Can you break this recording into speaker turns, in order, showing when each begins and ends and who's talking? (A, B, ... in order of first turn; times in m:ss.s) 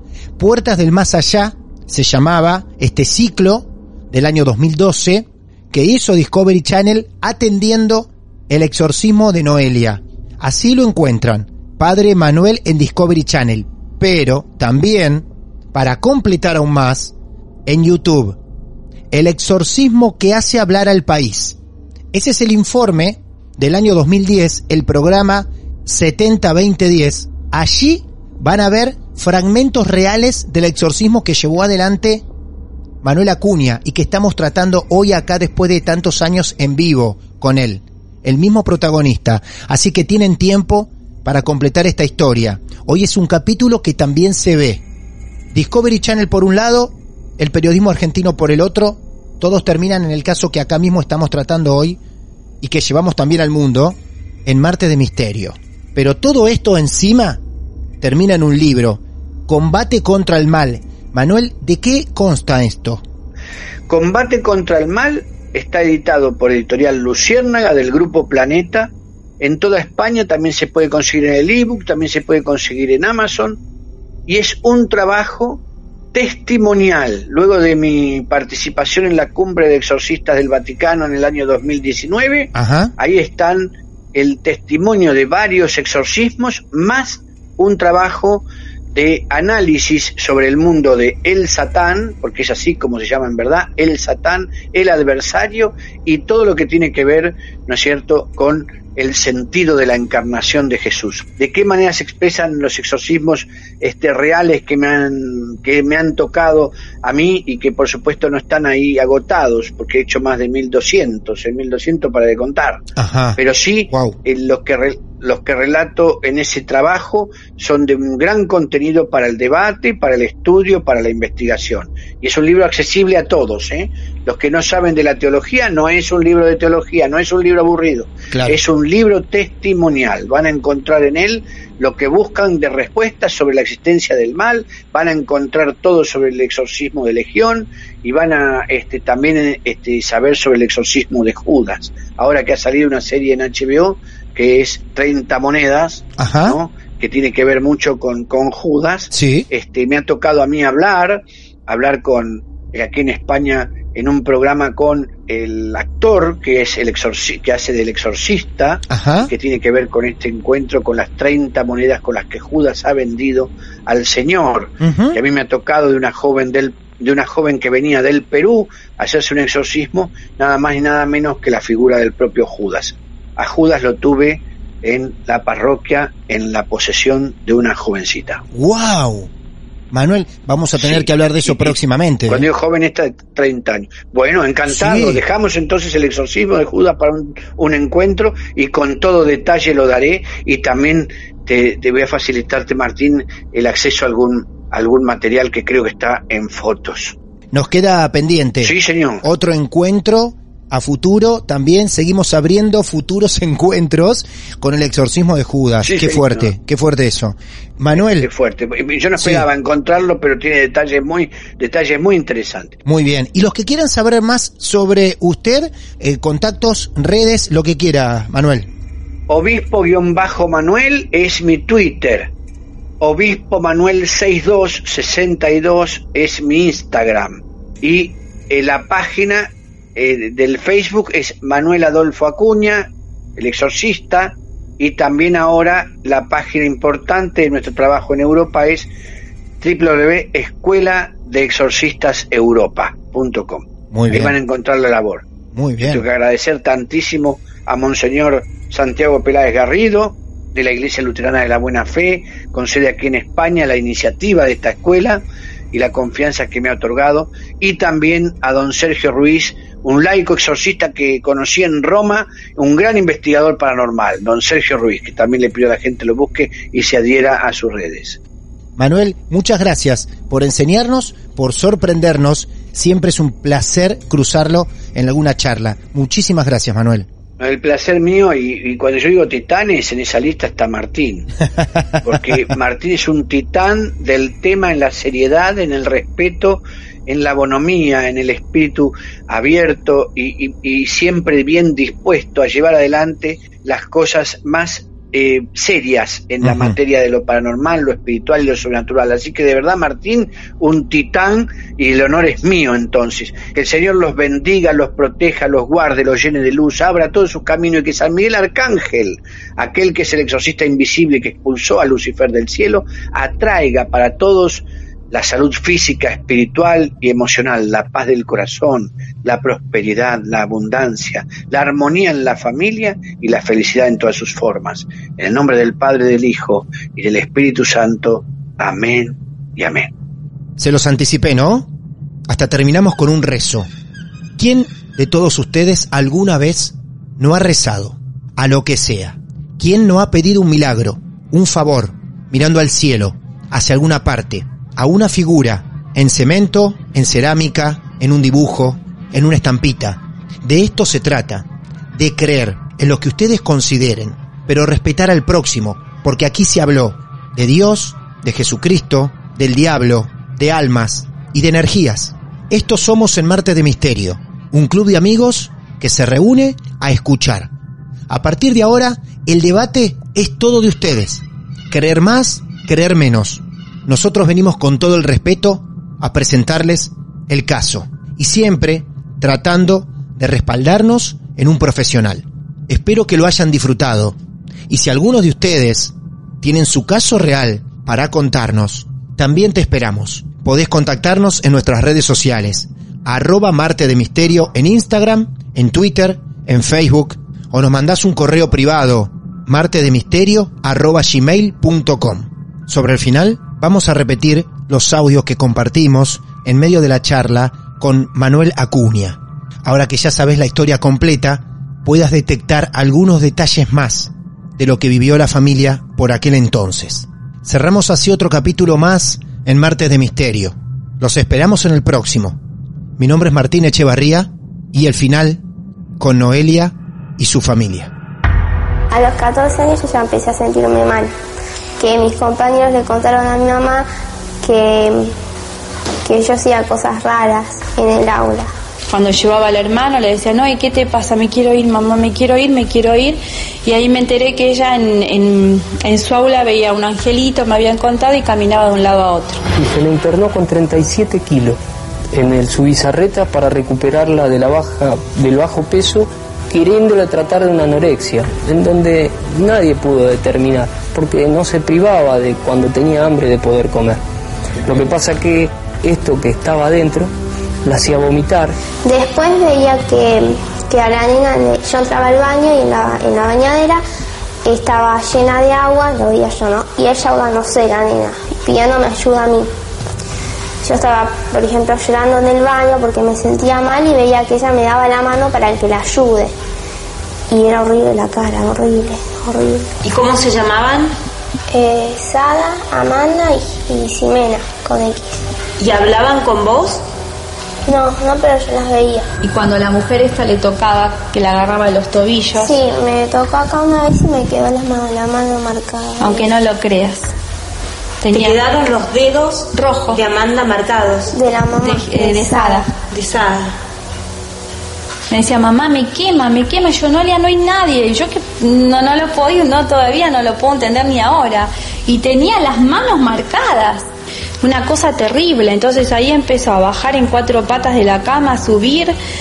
0:00.4-0:17.1 A
0:17.6-0:18.4 A
0:19.1-0:21.6 A
0:22.1-0:32.2 A
0:33.0-0:44.8 A
0:45.5-0:52.0 A
0:52.6-0:57.4 A
0:58.0-1:03.0 A
1:03.9-1:13.6 B
1:14.3-1:15.6 B
1:16.1-1:52.8 B
1:22.5-1:22.9 A
1:53.0-1:53.4 A
1:53.4-2:58.4 B
1:53.9-1:54.2 A
2:08.3-2:08.6 A
2:26.2-2:26.6 A
2:29.1-2:29.5 A
2:38.9-2:39.3 A
2:44.8-2:45.2 A
2:58.5-2:59.3 A
2:59.9-3:02.5 A
3:00.7-3:01.8 B
3:02.3-3:17.2 B
3:04.7-3:05.2 A
3:17.5-3:28.3 A
3:18.6-3:19.2 B
3:25.8-3:26.5 B
3:27.9-3:32.8 B
3:29.2-3:29.5 A
3:32.8-3:38.7 A
3:39.3-3:42.3 B
3:43.0-3:58.9 B
3:59.6-4:05.3 B
4:03.9-4:04.3 A
4:05.5-4:06.0 A
4:05.8-4:28.2 B
4:28.8-4:37.1 A
4:37.4-4:41.3 B
4:42.0-5:29.9 B
4:56.4-4:56.8 A
5:30.6-5:31.7 A
5:32.3-5:33.7 A
5:34.4-6:07.5 A
6:08.1-6:24.2 A
6:24.7-7:02.4 A
7:03.0-7:05.4 A
7:06.0-7:07.9 A
7:08.9-7:11.1 C
7:11.8-7:13.9 C
7:14.4-7:15.1 C
7:16.0-7:18.5 C
7:18.9-7:29.4 D
7:29.6-7:31.6 E
7:32.1-7:44.0 E
7:44.6-7:47.1 E
7:47.6-7:48.6 E
7:48.8-7:53.8 C
7:54.4-7:59.5 C
8:00.6-8:06.3 C
8:07.3-8:09.7 C
8:09.8-8:10.9 F
8:11.5-8:15.2 C
8:15.6-8:16.8 F
8:17.7-8:19.1 C
8:19.2-8:22.6 D
8:22.4-8:26.3 C
8:26.0-8:27.1 D
8:28.0-8:28.4 D
8:28.1-8:31.1 F
8:29.5-8:30.0 D
8:31.1-8:32.7 C
8:31.6-8:32.7 D
8:32.9-8:33.6 F
8:35.1-8:43.9 D
8:44.4-8:48.9 D